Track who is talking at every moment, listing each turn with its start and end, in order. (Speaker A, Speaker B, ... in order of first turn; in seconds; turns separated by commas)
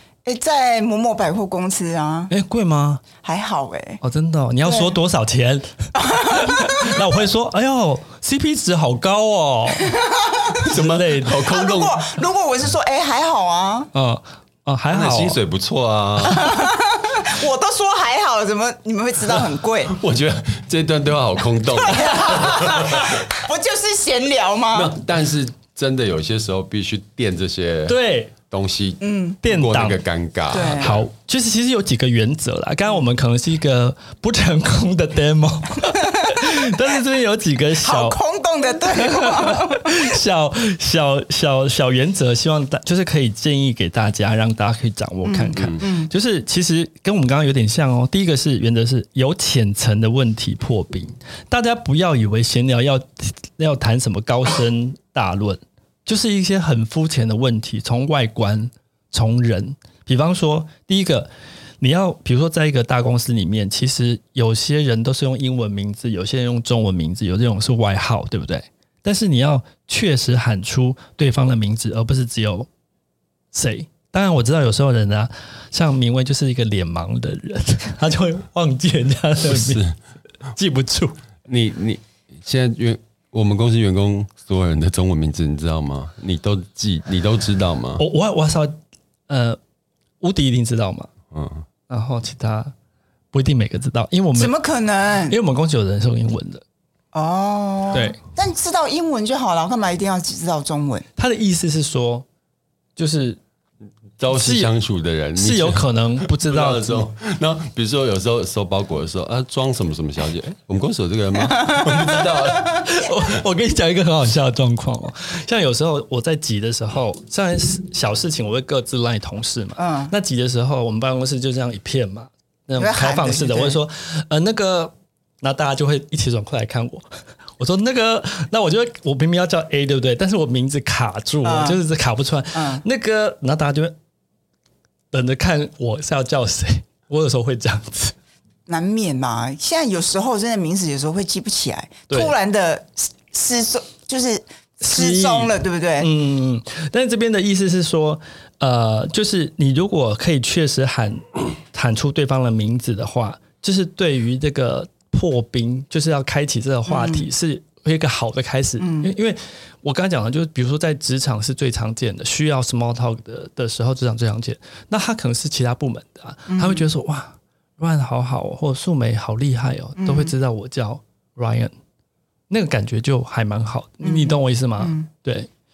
Speaker A: 0.2-2.3, Speaker B: 2.3-3.0, Speaker A: 3.2-4.0, Speaker B: 4.0-9.9, Speaker A: 4.7-4.9, Speaker A: 6.0-7.0, Speaker A: 9.8-10.6, Speaker C: 10.6-12.0, Speaker B: 10.7-11.4, Speaker A: 11.4-13.9, Speaker B: 13.9-15.4, Speaker C: 14.9-16.7, Speaker A: 16.3-20.0, Speaker C: 19.9-23.2, Speaker A: 21.8-24.9, Speaker C: 24.7-31.1, Speaker B: 27.9-28.3, Speaker A: 29.0-29.4, Speaker B: 29.4-30.0, Speaker A: 30.5-30.9, Speaker B: 30.8-38.2, Speaker A: 36.0-36.5, Speaker A: 37.8-40.1, Speaker B: 38.9-61.3, Speaker A: 45.2-46.1, Speaker C: 45.6-45.8, Speaker B: 61.8-72.7, Speaker B: 73.5-79.8, Speaker C: 79.5-80.0, Speaker B: 80.5-81.2, Speaker C: 81.5-88.0, Speaker B: 88.0-88.8, Speaker B: 89.3-89.6, Speaker B: 90.2-91.1, Speaker C: 91.3-91.7, Speaker B: 91.9-92.7, Speaker B: 93.3-94.5, Speaker A: 94.3-95.4, Speaker B: 95.3-96.6, Speaker A: 97.1-101.1, Speaker B: 97.9-98.2, Speaker B: 101.2-102.2, Speaker B: 103.0-103.4, Speaker C: 104.2-112.9, Speaker B: 104.3-104.7, Speaker B: 105.4-107.1, Speaker B: 112.0-127.0, Speaker A: 119.8-120.1, Speaker A: 122.8-123.8, Speaker B: 127.6-133.9, Speaker A: 131.4-131.8, Speaker A: 132.6-132.8, Speaker B: 135.1-138.2, Speaker A: 138.7-146.1, Speaker B: 144.8-171.7, Speaker A: 156.9-157.3, Speaker A: 158.8-159.1, Speaker A: 166.5-166.8, Speaker A: 170.0-170.3, Speaker B: 172.5-175.5, Speaker A: 174.0-175.1